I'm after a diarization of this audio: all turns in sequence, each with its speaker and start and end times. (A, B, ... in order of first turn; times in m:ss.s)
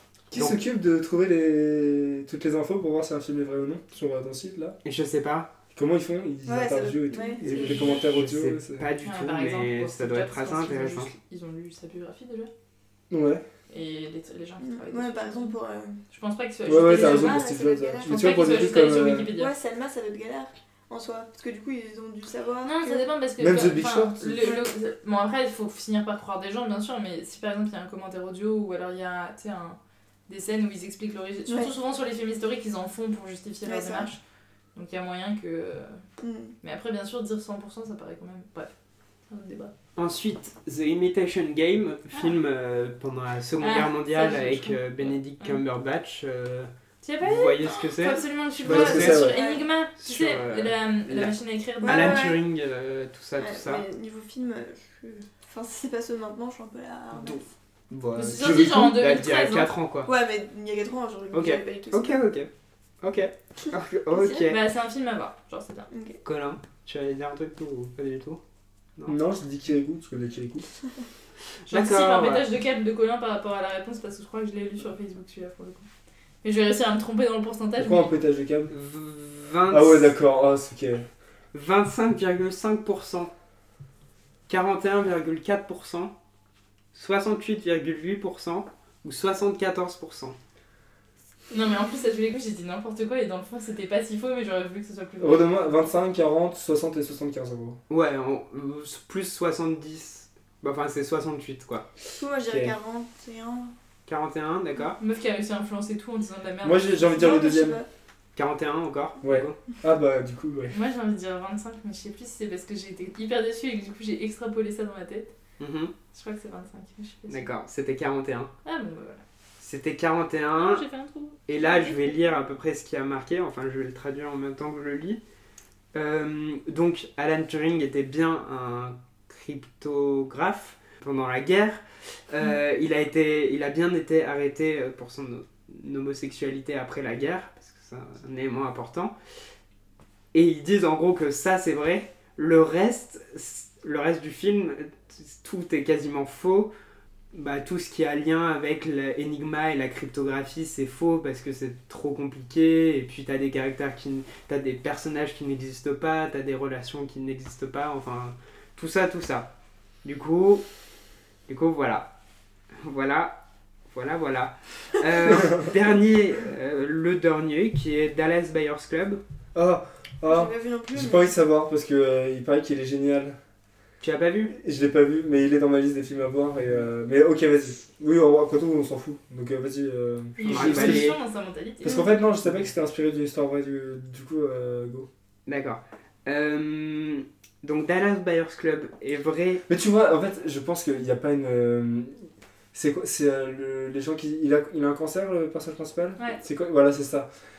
0:00.3-0:04.8 A
0:00.3-0:00.6 B
0:04.8-0:05.5 B
0:05.7-0:08.9 A
0:06.4-0:08.0 C
0:07.2-0:08.0 D
0:07.6-0:11.1 B
0:09.0-0:12.5 D
0:13.1-0:13.4 A
0:13.7-0:15.5 D
0:14.6-0:16.0 C
0:16.1-0:17.4 D
0:16.6-0:19.3 A
0:16.6-0:23.0 C
0:18.0-0:19.5 D
0:22.6-0:34.2 D
0:23.4-0:24.5 A
0:24.4-0:24.6 C
0:33.6-0:34.1 C
0:34.7-0:36.0 D
0:36.2-0:36.5 C
0:36.6-0:38.7 D
0:39.3-0:39.7 D
0:40.0-0:46.7 B
0:43.6-0:45.6 D
0:47.0-0:52.3 D
0:47.2-0:49.3 B
0:48.6-0:49.4 A
0:49.0-0:49.6 C
0:50.0-0:53.8 B
0:51.8-0:52.4 C
0:53.4-0:57.4 C
0:57.1-1:00.1 B
0:58.2-0:59.7 D
0:58.4-0:58.9 A
1:00.0-1:02.2 C
1:01.3-1:02.5 B
1:03.0-1:04.6 B
1:04.1-1:04.5 C
1:04.5-1:05.9 D
1:05.9-1:06.2 C
1:06.2-1:08.4 B
1:09.0-1:10.7 A
1:11.6-1:12.5 B
1:11.7-1:15.8 D
1:16.4-1:18.1 D
1:17.8-1:18.7 A
1:18.7-1:20.2 B
1:19.7-1:21.0 A
1:21.5-1:23.3 B
1:24.5-1:26.1 B
1:26.9-1:30.4 B
1:31.5-1:35.9 D
1:35.2-1:37.8 A
1:37.9-1:41.9 B
1:42.1-1:43.7 C
1:42.4-1:42.7 A
1:44.0-1:45.0 B
1:45.0-1:47.4 D
1:46.6-1:47.8 A
1:47.1-1:47.8 C
1:48.4-1:49.6 B
1:49.2-1:50.7 A
1:50.7-1:55.3 D
1:55.6-1:55.9 B
1:56.1-1:57.5 D
1:57.3-1:58.5 B
1:58.6-1:59.2 D
1:59.6-2:00.8 B
2:00.6-2:02.4 D
2:01.5-2:05.2 B
2:05.9-2:19.1 B
2:20.3-2:26.7 B
2:27.3-2:39.5 B
2:40.0-2:40.6 B
2:41.5-2:42.1 B
2:42.8-2:49.2 B
2:49.5-2:53.4 A
2:50.2-2:51.3 C
2:54.0-2:54.5 B
2:54.5-3:01.1 A
3:00.4-3:02.0 D
3:00.4-3:01.2 B
3:01.8-3:05.1 A
3:01.8-3:02.1 C
3:05.5-3:09.6 B
3:09.7-3:17.3 A